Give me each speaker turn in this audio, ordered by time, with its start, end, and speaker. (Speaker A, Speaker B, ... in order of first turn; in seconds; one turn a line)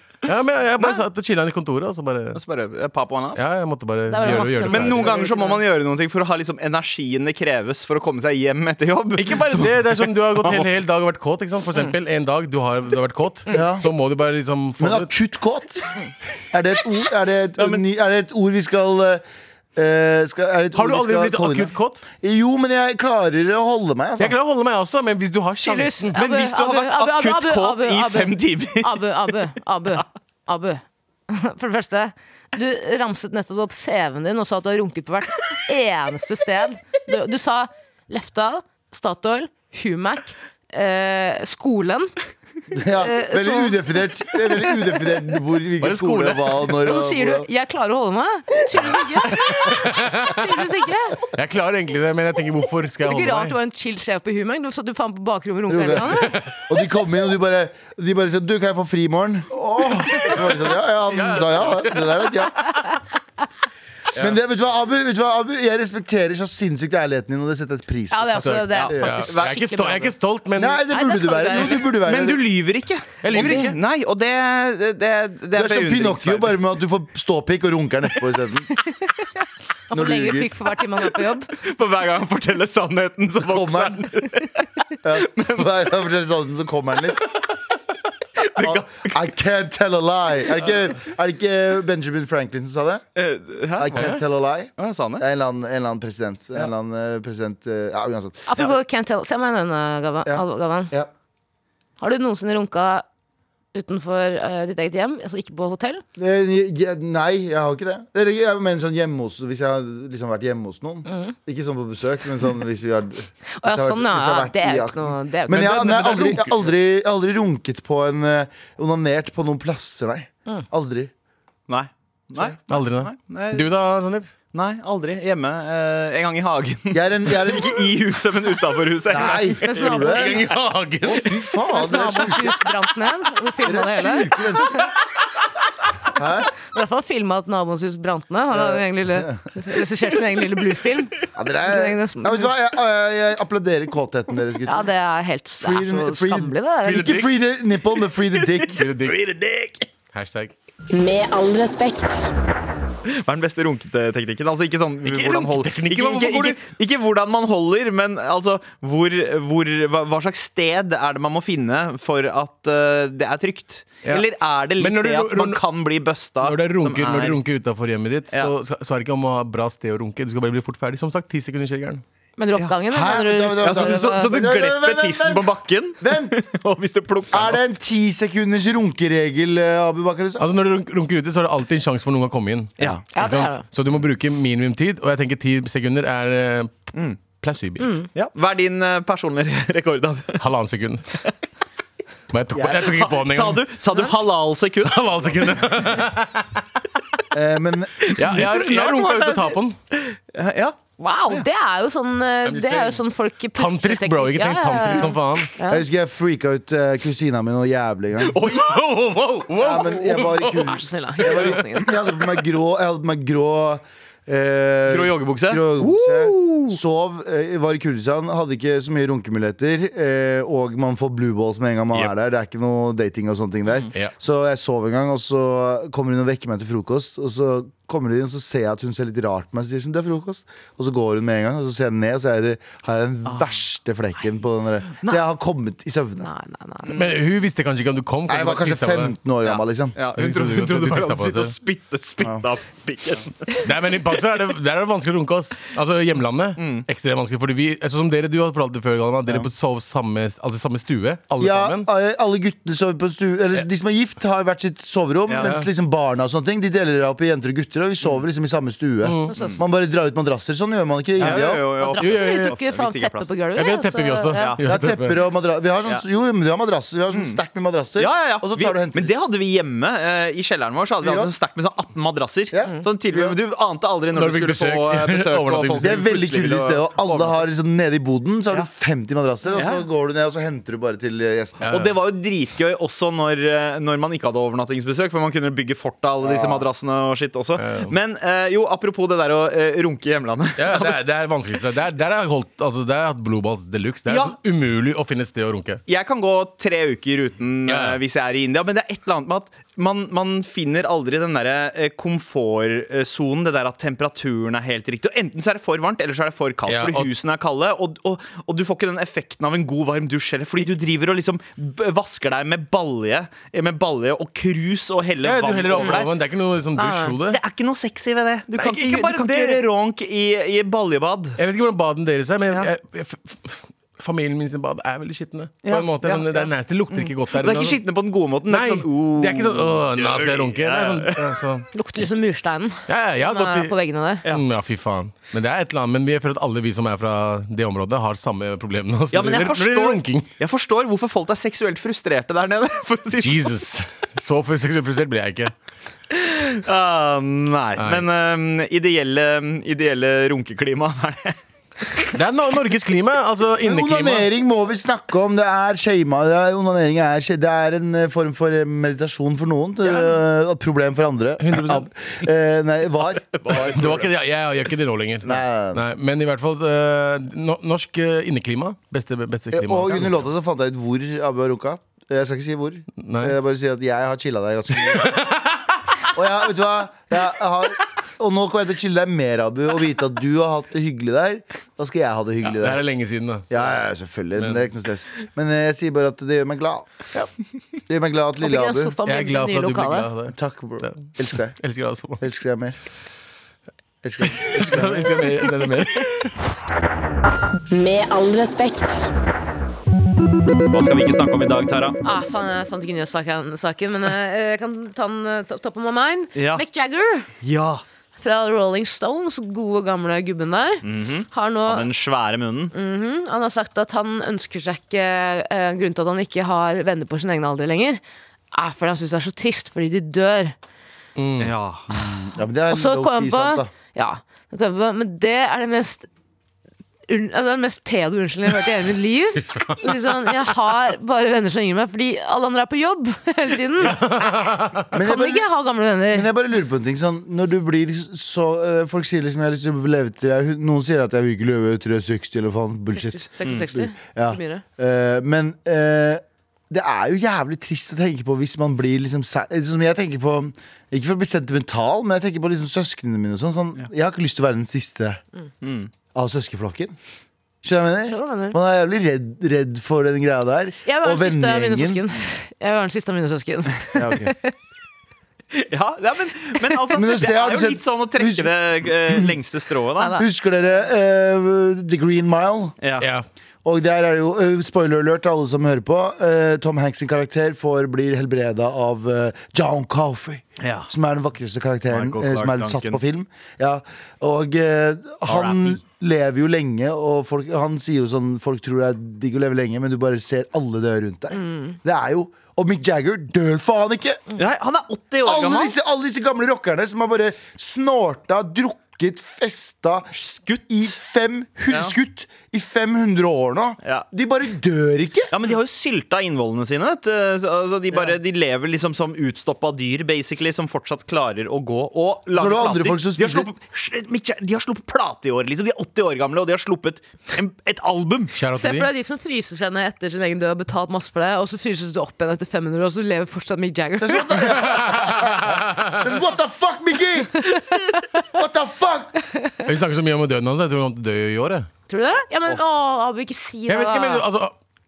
Speaker A: 0.2-2.4
Speaker B: 2.3-3.4
Speaker A: 3.4-5.2
Speaker C: 4.1-5.6
Speaker B: 4.2-10.7
Speaker A: 9.2-15.1
Speaker D: 13.5-13.9
Speaker D: 14.8-15.9
Speaker D: 16.5-19.2
Speaker D: 19.7-24.4
Speaker A: 20.7-22.0
Speaker A: 24.2-26.1
Speaker C: 25.6-42.1
Speaker B: 26.1-29.1
Speaker D: 42.7-47.5
Speaker C: 43.0-43.8
Speaker A: 45.8-46.6
Speaker C: 46.8-51.2
Speaker A: 49.2-50.7
Speaker A: 51.3-53.5
Speaker C: 53.0-56.3
Speaker D: 55.7-62.8
Speaker A: 56.0-56.6
Speaker A: 60.1-62.9
Speaker D: 64.2-69.2
Speaker C: 68.1-70.1
Speaker A: 68.4-70.8
Speaker B: 68.8-69.9
Speaker D: 70.5-72.4
Speaker C: 70.8-71.9
Speaker B: 72.0-76.5
Speaker A: 73.2-73.8
Speaker D: 75.5-78.7
Speaker C: 78.8-79.1
Speaker C: 79.9-81.5
Speaker D: 79.9-80.5
Speaker B: 81.5-85.9
Speaker D: 83.4-84.1
Speaker D: 85.0-87.3
Speaker B: 88.4-89.2
Speaker D: 88.6-93.0
Speaker B: 93.2-94.2
Speaker D: 93.8-98.4
Speaker B: 94.8-95.2
Speaker C: 98.5-100.9
Speaker D: 100.2-101.1
Speaker C: 102.0-103.0
Speaker C: 103.7-106.0
Speaker D: 106.2-121.1
Speaker C: 111.1-111.3
Speaker C: 113.6-115.8
Speaker A: 115.5-116.6
Speaker B: 121.7-123.7
Speaker A: 122.7-124.3
Speaker B: 124.5-130.5
Speaker D: 126.9-127.9
Speaker D: 129.1-130.5
Speaker C: 129.4-130.4
Speaker A: 130.0-131.4
Speaker D: 131.0-132.6
Speaker C: 131.7-134.9
Speaker D: 133.6-134.9
Speaker D: 136.1-136.5
Speaker C: 136.6-142.5
Speaker D: 138.5-139.4
Speaker D: 141.3-144.9
Speaker C: 144.7-147.2
Speaker D: 145.6-148.8
Speaker A: 146.8-147.3
Speaker B: 148.5-149.9
Speaker A: 148.8-149.2
Speaker A: 150.1-150.5
Speaker E: 150.9-152.2
Speaker B: 153.1-167.4
Speaker A: 155.0-156.6
Speaker A: 164.8-165.6
Speaker A: 166.4-172.0
Speaker C: 172.4-174.3
Speaker D: 172.9-176.3
Speaker B: 173.6-177.6
Speaker D: 177.3-180.4
Speaker A: 180.4-188.0
Speaker C: 183.1-183.6
Speaker B: 186.9-187.2
Speaker C: 187.8-188.1
Speaker B: 188.1-190.4
Speaker A: 190.4-191.0
Speaker A: 192.3-193.6
Speaker D: 192.5-192.9
Speaker B: 192.7-195.5
Speaker A: 194.8-196.6
Speaker D: 197.3-198.4
Speaker B: 198.0-200.8
Speaker A: 198.1-199.8
Speaker C: 201.0-205.8
Speaker A: 202.4-203.0
Speaker A: 203.5-205.5
Speaker D: 205.7-208.4
Speaker B: 208.2-209.9
Speaker A: 208.4-210.7
Speaker D: 209.6-236.3
Speaker C: 210.6-211.9
Speaker B: 214.9-216.8
Speaker C: 236.2-236.9
Speaker A: 236.9-239.1
Speaker D: 238.3-239.9
Speaker B: 239.4-243.6
Speaker A: 240.2-241.5
Speaker A: 243.6-251.9
Speaker B: 246.6-246.8
Speaker D: 251.4-261.6
Speaker B: 255.3-255.6
Speaker A: 255.4-255.7
Speaker A: 259.0-259.3
Speaker C: 259.3-259.6
Speaker B: 259.3-259.6
Speaker B: 261.2-263.3
Speaker A: 261.2-262.5
Speaker C: 261.6-264.6
Speaker A: 263.5-265.2
Speaker D: 264.6-269.1
Speaker B: 267.1-267.4
Speaker B: 268.0-277.4
Speaker D: 271.0-271.3
Speaker D: 272.5-273.4
Speaker A: 274.1-276.0
Speaker D: 275.8-281.7
Speaker B: 279.5-279.8
Speaker A: 281.6-281.9
Speaker B: 281.7-291.0
Speaker D: 286.2-286.7
Speaker A: 287.6-287.9
Speaker A: 290.6-295.8
Speaker B: 294.1-294.4
Speaker B: 295.9-316.1
Speaker A: 297.7-298.0
Speaker A: 306.7-307.1
Speaker A: 315.2-317.4
Speaker C: 316.8-317.1
Speaker B: 317.3-321.4
Speaker A: 318.6-319.6
Speaker A: 321.4-327.8
Speaker B: 325.6-331.4
Speaker A: 328.5-331.7
Speaker C: 331.7-334.2
Speaker A: 332.9-333.7
Speaker A: 334.3-340.3
Speaker B: 339.1-343.6
Speaker A: 343.2-345.5
Speaker B: 346.1-351.4
Speaker A: 347.8-348.1
Speaker A: 352.1-354.3
Speaker D: 353.6-363.9
Speaker A: 361.4-361.9
Speaker B: 363.3-364.1
Speaker A: 363.6-370.2
Speaker D: 365.2-365.8
Speaker D: 369.5-375.3
Speaker A: 373.0-373.3
Speaker A: 374.9-375.8
Speaker D: 376.1-382.8
Speaker A: 382.4-383.5
Speaker D: 383.5-386.9
Speaker A: 384.4-384.6
Speaker D: 387.9-388.9
Speaker C: 388.4-390.1
Speaker A: 389.0-392.2
Speaker D: 390.3-391.6
Speaker D: 392.2-392.8
Speaker D: 394.0-395.4
Speaker A: 394.3-396.3
Speaker E: 397.7-399.1
Speaker B: 400.7-402.0
Speaker C: 402.0-407.3
Speaker B: 406.3-406.6
Speaker B: 407.4-407.8
Speaker C: 408.2-411.9
Speaker B: 410.8-412.7
Speaker C: 412.7-418.0
Speaker C: 418.5-420.5
Speaker A: 421.1-421.5
Speaker B: 421.4-421.9
Speaker D: 421.9-423.7
Speaker C: 422.7-426.1
Speaker C: 427.1-434.0
Speaker A: 433.8-434.9
Speaker D: 434.9-435.5
Speaker C: 434.9-436.3
Speaker D: 436.1-455.2
Speaker C: 442.9-444.6
Speaker B: 455.6-455.9
Speaker D: 456.1-456.9
Speaker D: 457.6-462.0
Speaker C: 458.1-458.6
Speaker C: 460.8-464.5
Speaker D: 463.9-464.3
Speaker B: 465.5-470.2
Speaker D: 466.9-469.3
Speaker C: 470.0-470.2
Speaker D: 470.1-472.8
Speaker B: 472.8-473.1
Speaker A: 473.0-473.2
Speaker D: 473.6-494.2
Speaker B: 480.6-480.9
Speaker B: 481.9-483.0
Speaker B: 485.2-485.8
Speaker C: 491.3-491.7
Speaker B: 494.4-495.7
Speaker D: 495.2-505.3
Speaker B: 500.1-500.9
Speaker B: 501.7-501.9
Speaker B: 505.3-518.3
Speaker D: 512.3-513.5
Speaker A: 518.3-518.9
Speaker C: 518.5-524.6
Speaker D: 524.0-527.5
Speaker A: 524.5-526.0
Speaker C: 527.4-528.0
Speaker D: 528.3-529.1
Speaker A: 529.6-531.7
Speaker C: 531.9-534.2
Speaker A: 533.7-534.5